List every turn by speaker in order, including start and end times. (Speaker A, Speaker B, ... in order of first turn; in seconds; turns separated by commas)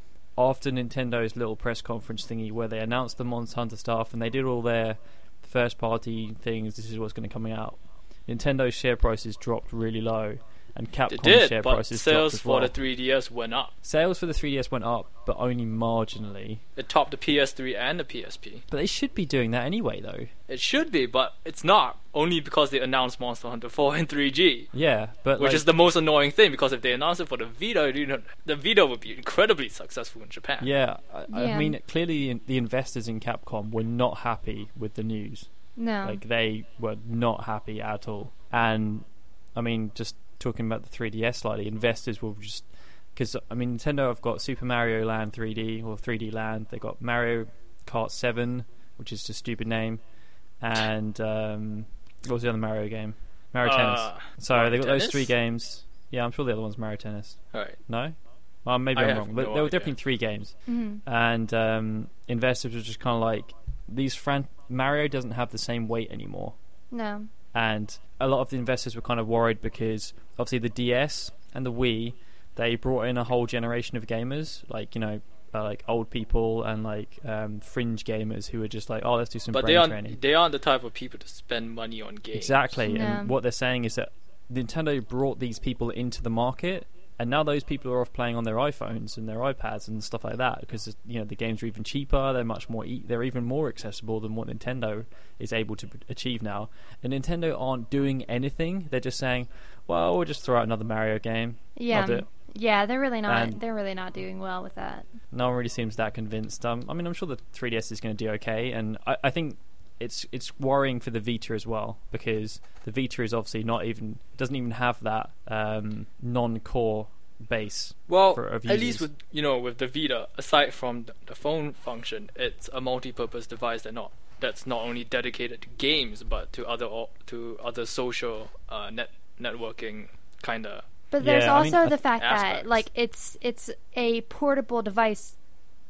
Speaker A: 0.4-12.7, Speaker B: 11.1-13.8, Speaker A: 13.8-16.6, Speaker B: 16.8-18.6, Speaker A: 18.7-20.3, Speaker B: 20.5-24.7, Speaker A: 24.7-25.7, Speaker B: 25.4-30.7, Speaker A: 30.6-35.5, Speaker C: 31.3-31.8, Speaker C: 35.8-36.2, Speaker A: 36.0-50.0, Speaker A: 50.6-60.5, Speaker B: 53.6-55.3, Speaker B: 59.0-59.9, Speaker C: 60.7-61.0, Speaker A: 61.0-66.6, Speaker C: 66.9-67.3, Speaker A: 67.5-80.2, Speaker B: 79.5-82.8, Speaker A: 82.3-102.3, Speaker C: 82.9-83.3, Speaker C: 101.8-105.1, Speaker A: 103.3-103.6, Speaker A: 105.3-119.1, Speaker B: 118.1-130.9, Speaker C: 131.1-135.4, Speaker A: 131.2-132.0, Speaker B: 132.2-132.8